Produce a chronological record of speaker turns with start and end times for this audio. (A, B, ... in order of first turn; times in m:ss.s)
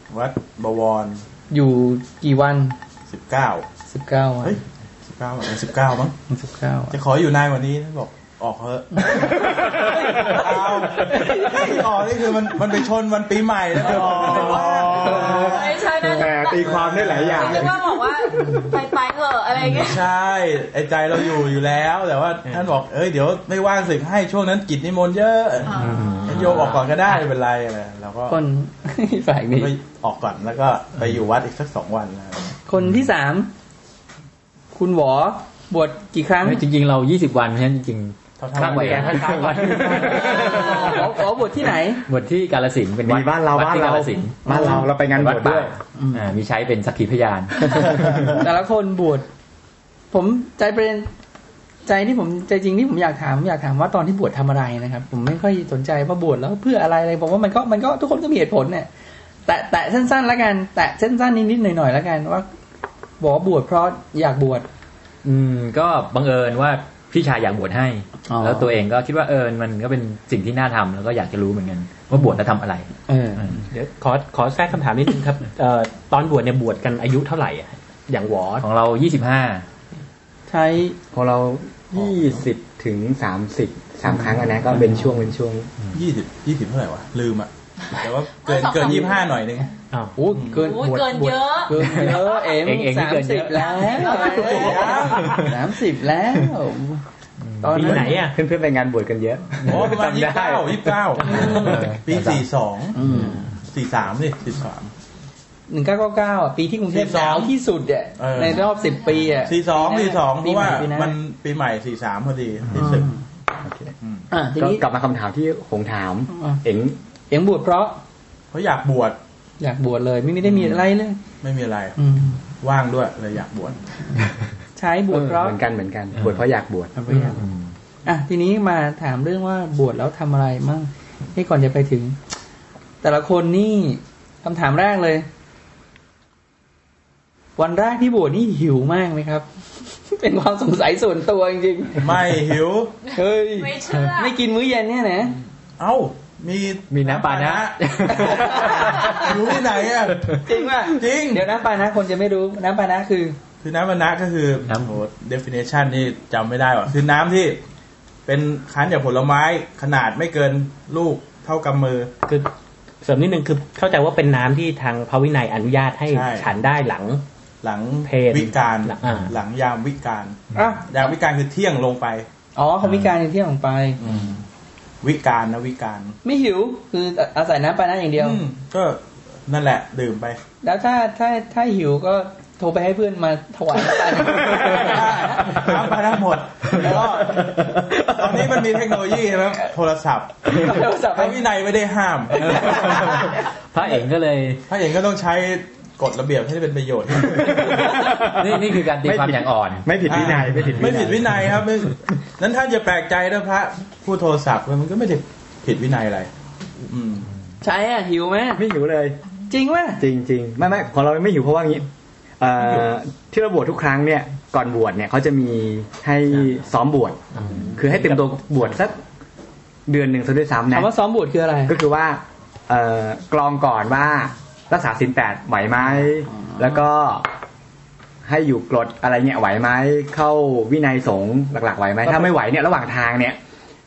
0:00.1-0:01.2 A
0:01.5-0:02.8 B
0:03.1-0:03.6 A
0:03.9-0:04.6 B
0:04.4-0:06.2 A
0:06.3-0:07.0 B
0:06.9-0:15.7 A
0:09.1-0:10.4 C
0:10.1-0:10.4 B
0:11.0-0:11.8 B
0:13.8-0:17.8 C
0:15.0-0:16.2 B
0:15.2-0:20.1 D
0:16.6-0:17.7 A
0:18.4-0:18.7 B
0:19.6-0:28.4 A
0:25.6-0:26.3 D
0:25.8-0:26.8 E
0:28.3-0:29.7 B
0:29.6-0:32.6 A
0:32.7-0:33.5 B
0:34.7-0:36.6 B
0:36.4-0:41.1 E
0:38.4-0:40.1 A
0:38.6-0:40.5 C
0:40.1-0:42.0 B
0:42.1-0:48.4 E
0:43.0-0:45.7 C
0:44.4-0:44.9 B
0:46.0-0:46.3 B
0:47.9-0:49.2 B
0:50.1-0:51.1 B
0:51.8-0:58.9 B
0:59.5-1:02.5 B
1:03.2-1:04.7 B
1:05.2-1:13.6 E
1:08.3-1:08.7 B
1:13.1-1:13.4 B
1:13.7-1:18.6 F
1:18.6-1:19.6 E
1:20.5-1:21.0 B
1:21.1-1:25.7 C
1:25.9-1:29.7 A
1:28.4-1:29.3 D
1:29.9-1:30.2 F
1:30.2-1:37.0 B
1:30.3-1:30.6 A
1:30.5-1:32.5 D
1:31.8-1:34.1 E
1:33.5-1:35.2 D
1:34.4-1:35.4 A
1:35.2-1:35.5 E
1:37.4-1:38.0 E
1:37.6-1:38.2 B
1:37.7-1:38.4 F
1:37.8-1:41.2 C
1:39.7-1:43.0 A
1:41.3-1:42.4 E
1:42.9-1:43.4 B
1:43.0-1:43.4 F
1:43.6-1:44.9 A
1:45.7-1:51.1 B
1:46.9-1:47.5 A
1:48.2-1:48.6 A
1:49.4-1:53.1 A
1:52.7-1:53.2 B
1:53.6-1:53.9 C
1:54.3-1:54.8 B
1:54.6-1:57.0 C
1:56.3-1:56.6 B
1:57.3-1:58.0 B
1:58.5-1:59.2 A
1:59.6-2:01.2 B
2:00.4-2:00.8 A
2:01.4-2:02.0 A
2:02.0-2:02.4 B
2:02.6-2:03.8 A
2:04.8-2:05.6 B
2:05.2-2:06.9 C
2:06.1-2:06.4 E
2:07.0-2:07.4 B
2:07.1-2:07.7 E
2:08.0-2:12.2 B
2:13.0-2:15.2 B
2:17.6-2:22.0 B
2:22.0-2:22.9 A
2:23.2-2:25.3 B
2:23.5-2:24.4 D
2:25.8-2:31.4 A
2:26.9-2:29.4 E
2:28.1-2:28.8 B
2:30.4-2:33.4 B
2:33.6-2:37.6 A
2:34.7-2:35.0 E
2:38.2-2:42.1 A
2:43.0-2:47.2 F
2:46.1-2:46.5 A
2:47.6-2:52.3 A
2:48.0-2:49.3 F
2:50.6-2:50.8 B
2:52.6-2:54.0 B
2:52.8-2:53.1 E
2:54.0-2:54.4 A
2:55.0-2:56.2 A
2:56.2-2:58.4 B
2:58.2-3:00.4 A
3:00.6-3:05.6 B
3:04.4-3:13.3 A
3:10.5-3:11.4 B
3:12.4-3:13.4 B
3:12.9-3:14.6 E
3:14.7-3:18.0 A
3:17.3-3:21.3 C
3:18.3-3:20.9 E
3:20.0-3:26.3 A
3:26.9-3:27.3 A
3:27.6-3:28.6 B
3:28.6-3:29.2 C
3:29.5-3:30.0 B
3:30.0-3:31.9 C
3:32.4-3:39.0 C
3:39.9-3:40.9 C
3:40.7-3:41.8 B
3:41.7-3:47.3 C
3:46.3-3:46.8 B
3:48.2-3:53.4 C
3:52.0-3:52.3 B